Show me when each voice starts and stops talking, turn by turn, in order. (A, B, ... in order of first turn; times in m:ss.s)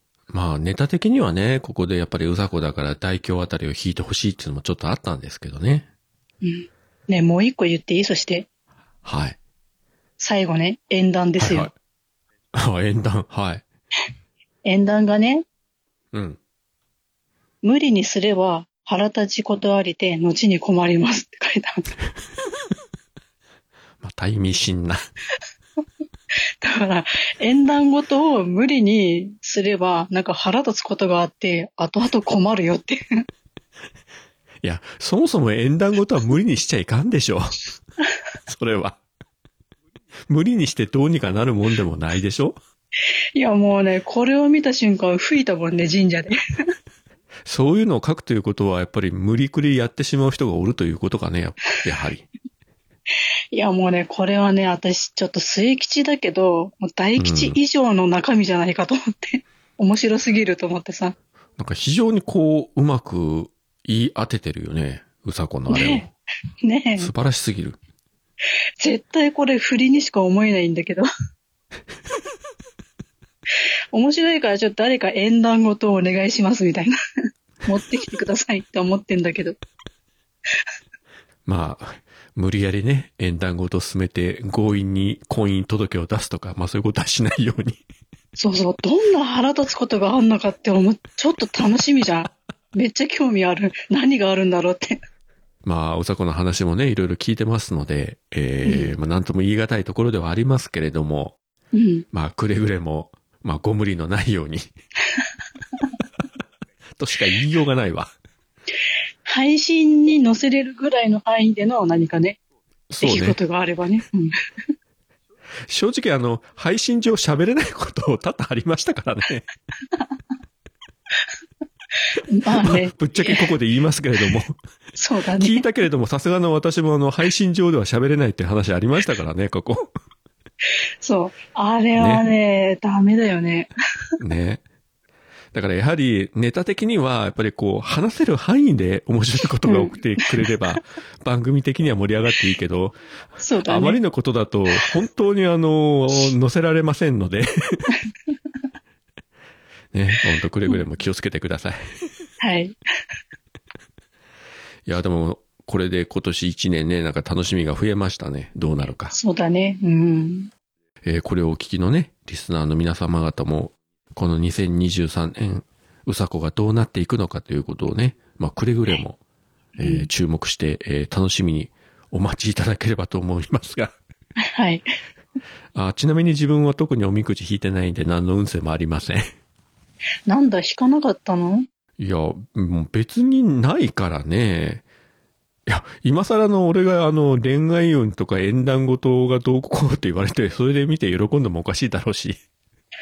0:00.3-0:05.9 A
0:06.4-0:08.5 B
0:09.0-0:09.4 A
0:10.2-0:11.7 B
0:11.4-0:11.7 A
0:12.5-0:13.6 A
0:14.6-0:15.4 B
0:16.1-0:16.4 A
0:17.6-0:21.9 B
0:24.0-0:25.0 A
0:26.6-0:33.0 B
0:34.6-0:37.6 A
0:38.4-0:39.0 A
0:40.3-0:42.6 A
0:43.4-0:46.3 B
0:47.4-0:52.3 A
0:53.5-1:01.2 B
0:57.2-0:57.6 A
1:01.6-1:06.1 A
1:05.7-1:06.1 B
1:06.6-1:07.1 B
1:07.0-1:07.8 A
1:08.8-1:11.0 B
1:13.9-1:16.9 B
1:17.7-1:19.6 B
1:21.4-1:27.8 A
1:28.4-1:35.0 B
1:35.6-1:41.4 A
1:38.6-1:38.9 B
1:41.7-1:42.0 B
1:42.1-1:44.7 A
1:47.0-1:48.1 A
1:49.2-1:52.4 B
1:52.9-1:53.4 A
1:53.0-1:54.3 B
1:55.6-1:59.4 A
2:02.3-2:03.5 B
2:02.6-2:04.6 A
2:05.0-2:05.6 B
2:05.4-2:09.9 A
2:11.0-2:13.7 B
2:12.0-2:12.2 A
2:14.2-2:14.6 A
2:15.5-2:23.0 A
2:19.6-2:20.4 B
2:23.4-2:24.0 B
2:23.6-2:27.9 A
2:29.9-2:31.9 A
2:32.4-2:32.8 B
2:34.8-2:39.1 A
2:39.1-2:40.5 B
2:41.0-2:49.2 A
2:49.8-2:53.9 A
2:49.8-2:50.1 B
2:54.5-2:54.8 B
2:55.7-2:59.2 A
3:00.3-3:01.7 B
3:02.0-3:04.8 A
3:05.6-3:12.4 A